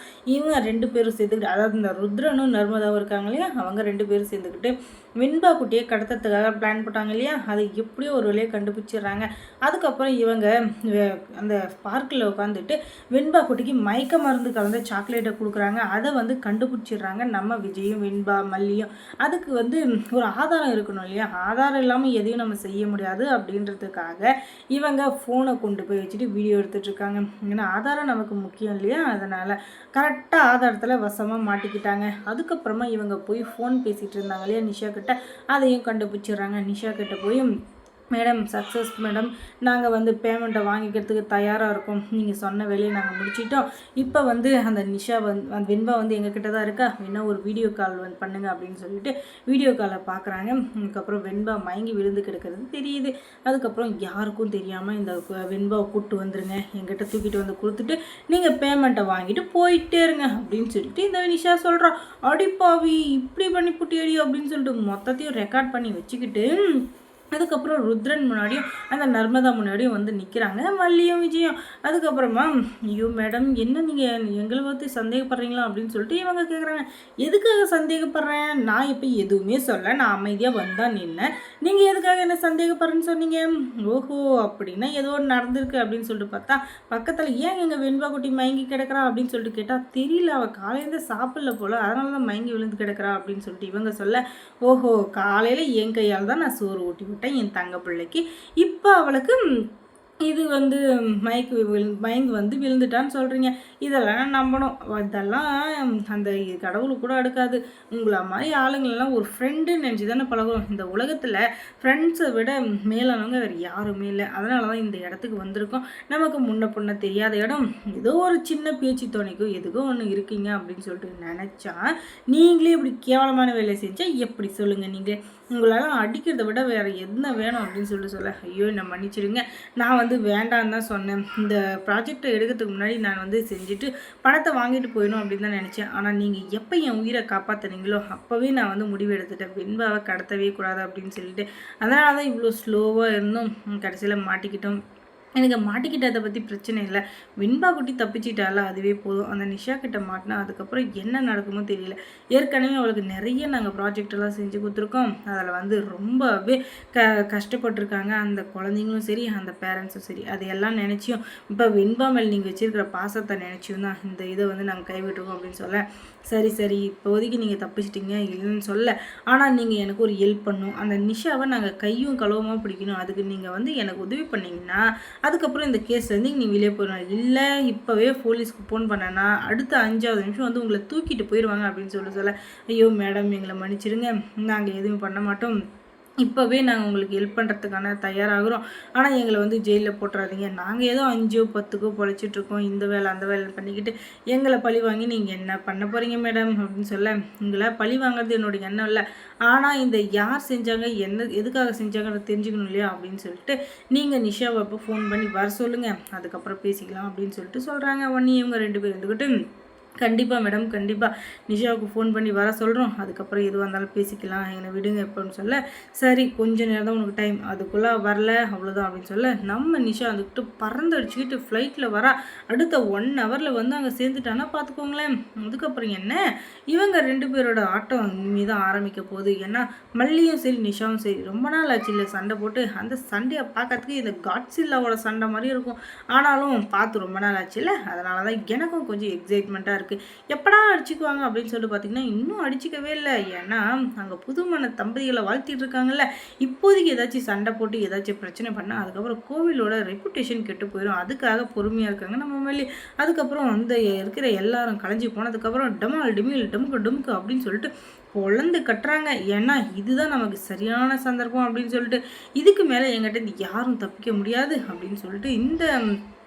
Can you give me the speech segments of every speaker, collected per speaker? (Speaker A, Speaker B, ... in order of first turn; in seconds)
Speaker A: 0.3-37.5, 38.1-66.5, 67.3-99.4, 100.3-121.8, 122.3-144.8, 145.4-185.6, 186.2-209.3, 210.0-226.2, 226.7-265.7